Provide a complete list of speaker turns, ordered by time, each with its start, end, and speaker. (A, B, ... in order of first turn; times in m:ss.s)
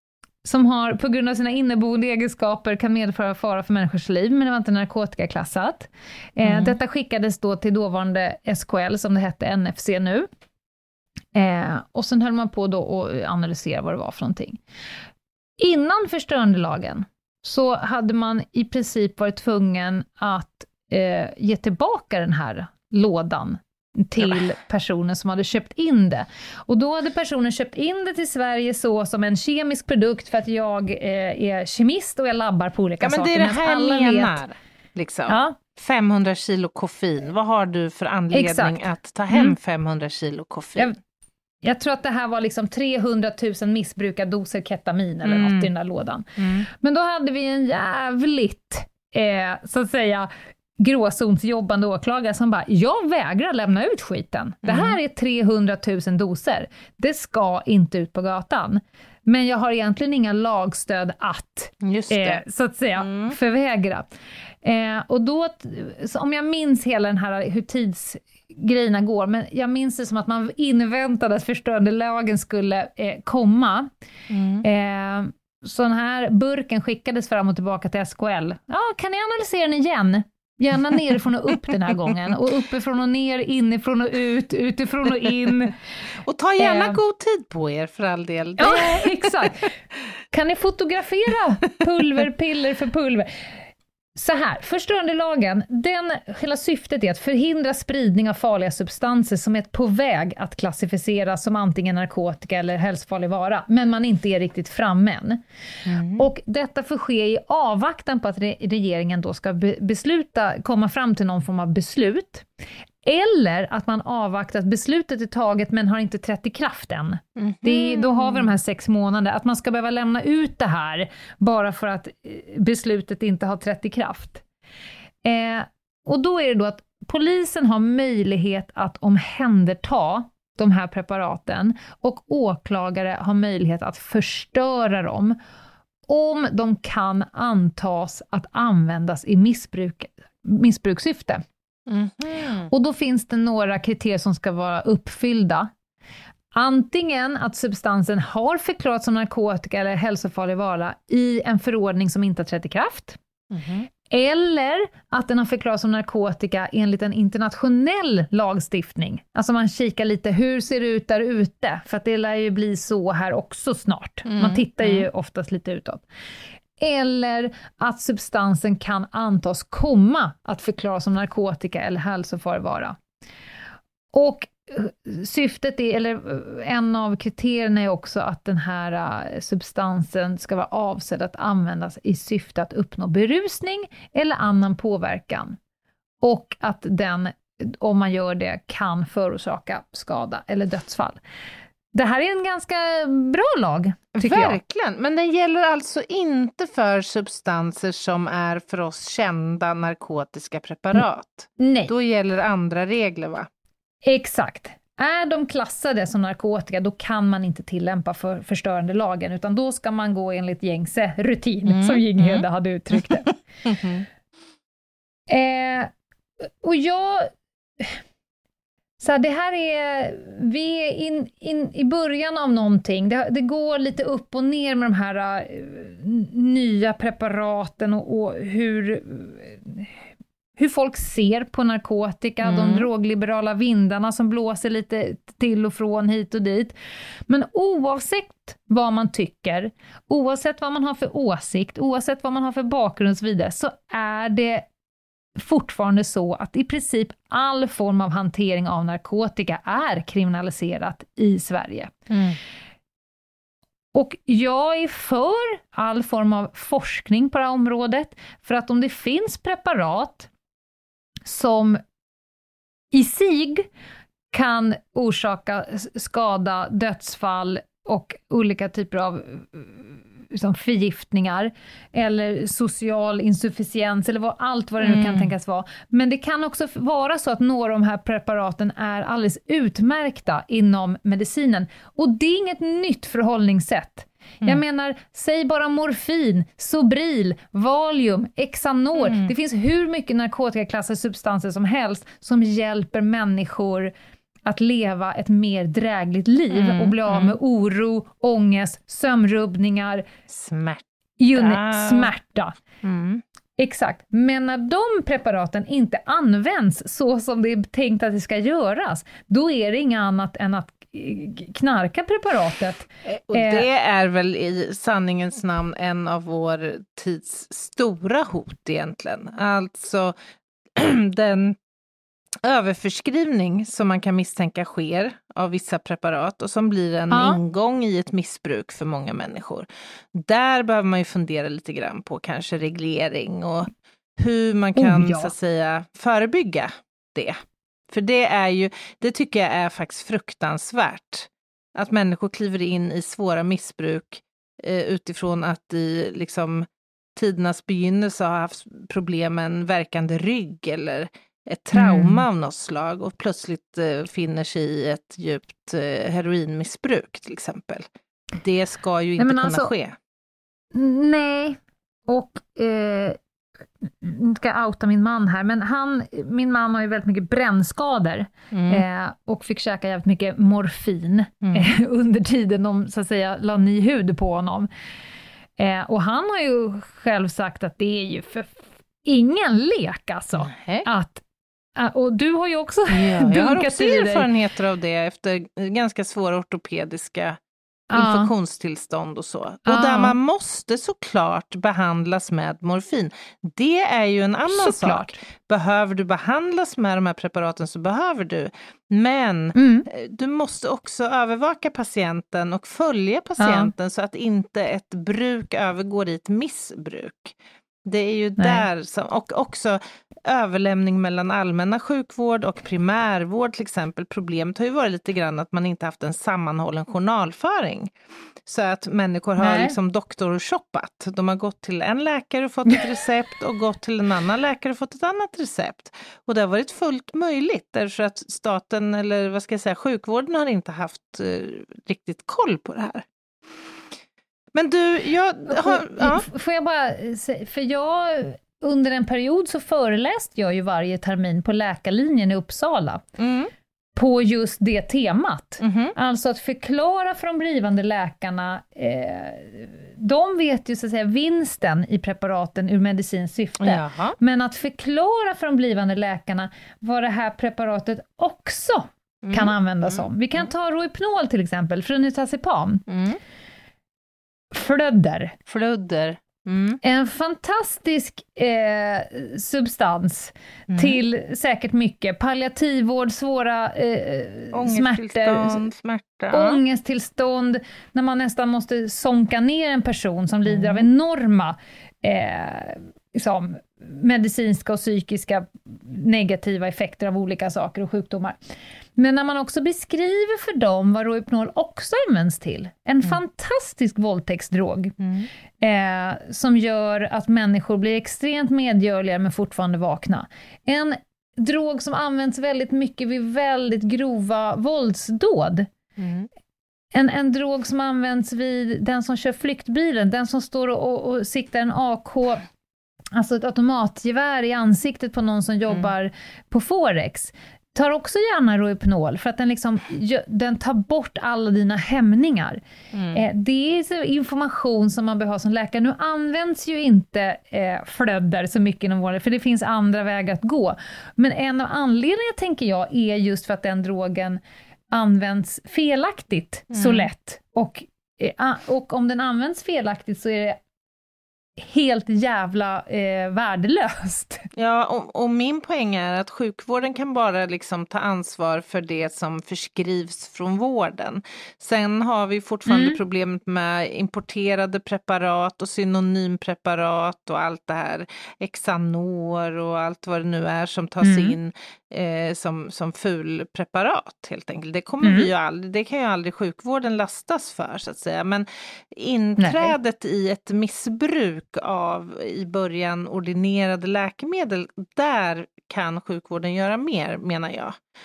0:00.4-0:10.3 A
0:06.4-0:06.8 B
0:11.3-0:14.6 A
0:15.6-0:34.4 A
0:33.0-0:40.9 B
0:35.3-0:35.6 A
0:38.3-0:39.5 A
0:41.6-1:04.1 A
0:45.2-0:45.7 B
0:46.4-0:46.7 B
0:54.6-0:55.0 B
1:01.8-1:02.4 B
1:03.0-1:03.4 B
1:04.6-1:13.9 A
1:14.3-1:14.6 B
1:14.6-1:25.7 A
1:26.2-1:29.5 B
1:26.6-1:27.0 A
1:28.6-1:29.7 A
1:30.3-1:33.4 A
1:34.2-1:45.4 A
1:45.8-1:46.2 B
1:46.1-1:52.4 A
1:53.0-2:04.4 A
1:57.4-1:58.5 B
2:05.2-2:15.4 A
2:16.1-2:21.4 A
2:21.9-2:22.7 B
2:22.7-2:25.7 A
2:26.5-2:33.2 A
2:33.5-2:33.9 B
2:34.1-2:46.0 A
2:44.2-2:45.1 B
2:46.8-2:53.0 A
2:54.1-3:05.6 A
3:06.2-3:11.2 A
3:11.9-3:14.6 A
3:14.1-3:23.5 B
3:21.6-3:21.9 A
3:24.0-3:33.3 A
3:31.7-3:34.0 B
3:35.3-3:35.9 A
3:36.6-3:38.0 A
3:39.0-3:49.9 A
3:50.6-3:56.7 A
3:52.4-3:52.9 B
3:57.3-4:04.6 A
4:05.4-4:11.9 A
4:12.1-4:12.4 B
4:13.9-4:20.3 A
4:21.2-4:21.8 A
4:22.9-4:23.7 A
4:24.3-4:53.9 A
4:34.8-4:35.3 B
4:49.0-4:49.3 B
4:54.4-5:00.0 A
4:56.5-4:57.4 B
5:00.3-5:02.1 B
5:01.2-5:02.6 A
5:02.8-5:03.2 B
5:03.6-5:13.6 A
5:13.3-5:20.1 B
5:20.8-5:21.6 B
5:22.4-5:37.4 B
5:27.1-5:27.4 A
5:34.8-5:35.3 A
5:37.9-6:00.0 B
5:51.7-5:52.2 A
5:59.2-5:59.7 A
6:00.7-6:03.2 A
6:03.8-6:14.7 A
6:08.5-6:08.8 B
6:11.4-6:11.7 B
6:15.6-6:21.2 A
6:20.4-6:20.9 B
6:21.8-6:24.3 A
6:22.9-6:27.4 B
6:27.9-6:28.3 A
6:27.9-6:57.9 B
6:29.6-6:30.2 A
6:34.5-6:35.2 A
6:39.5-6:39.9 A
6:43.4-6:43.7 A
6:48.4-6:48.6 A
6:58.4-7:13.0 B
6:59.4-6:59.8 A
7:14.5-7:16.2 B
7:15.5-7:23.0 A
7:23.2-7:23.5 B
7:23.9-7:42.8 A
7:25.6-7:25.9 B
7:33.6-7:34.2 B
7:39.2-7:40.0 B
7:42.9-7:43.2 B
7:44.5-7:45.4 A
7:45.5-7:46.8 B
7:46.8-7:55.6 A
7:50.7-7:51.0 B
7:54.5-7:56.6 B
7:56.3-8:08.4 A
8:00.5-8:00.8 B
8:09.0-8:15.0 A
8:15.0-8:15.3 B
8:15.6-8:25.7 A
8:26.0-8:26.3 B
8:26.9-8:32.4 A
8:33.1-8:42.6 A
8:42.9-8:43.2 B
8:43.1-8:54.4 A
8:54.9-9:00.6 A
8:56.7-8:57.1 B
9:01.6-9:04.5 A
9:04.5-9:37.8 B
9:12.7-9:13.0 A
9:21.0-9:21.4 A
9:25.0-9:25.3 A
9:29.4-9:29.7 A